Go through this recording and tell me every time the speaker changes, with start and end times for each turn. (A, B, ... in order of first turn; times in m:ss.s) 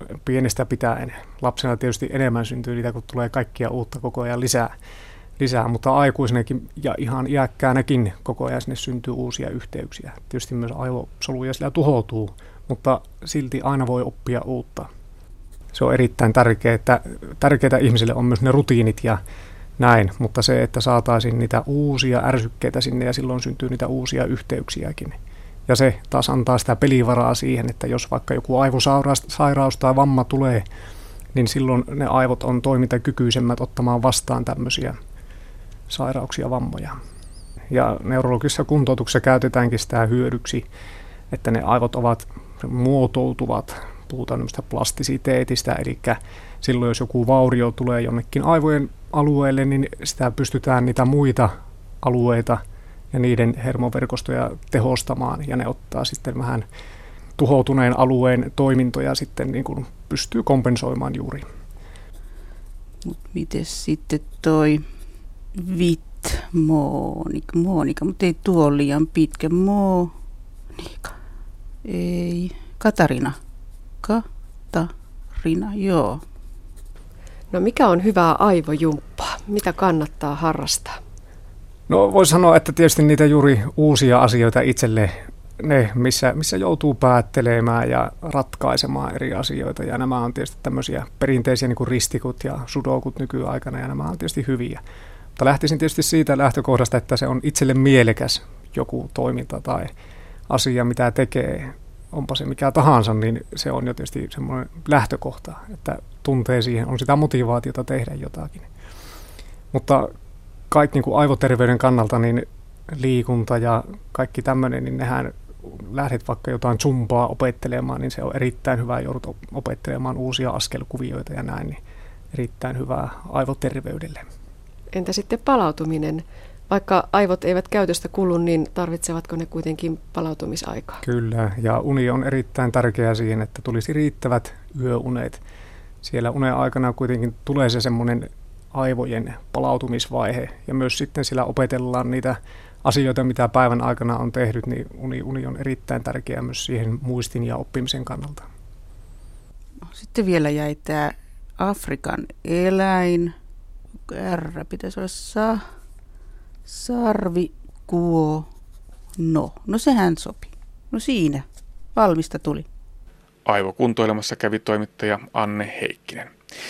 0:00.2-0:04.7 A
0:05.4-0:14.9 A
0:15.7-0:19.2 A
0:19.8-0:30.6 A
0:31.3-0:35.0 A
0:35.9-0:37.0 A
0:37.7-0:40.6 A
0:41.3-0:56.6 A
0:57.4-1:01.4 A
1:03.0-1:04.8 B
1:05.5-1:10.1 B
1:10.8-1:11.1 B
1:11.8-1:13.4 B
1:14.0-1:16.2 B
1:17.5-1:21.0 C
1:21.9-1:34.8 A
1:35.4-1:39.9 A
1:40.5-1:48.7 A
1:49.7-1:50.1 A
1:50.7-2:01.8 A
2:02.3-2:04.2 A
2:04.9-2:11.0 C
2:11.0-2:15.4 A
2:16.0-2:28.4 A
2:29.9-2:33.3 B
2:34.1-2:35.6 B
2:36.7-2:38.5 B
2:39.2-2:42.6 B
2:43.4-2:46.3 D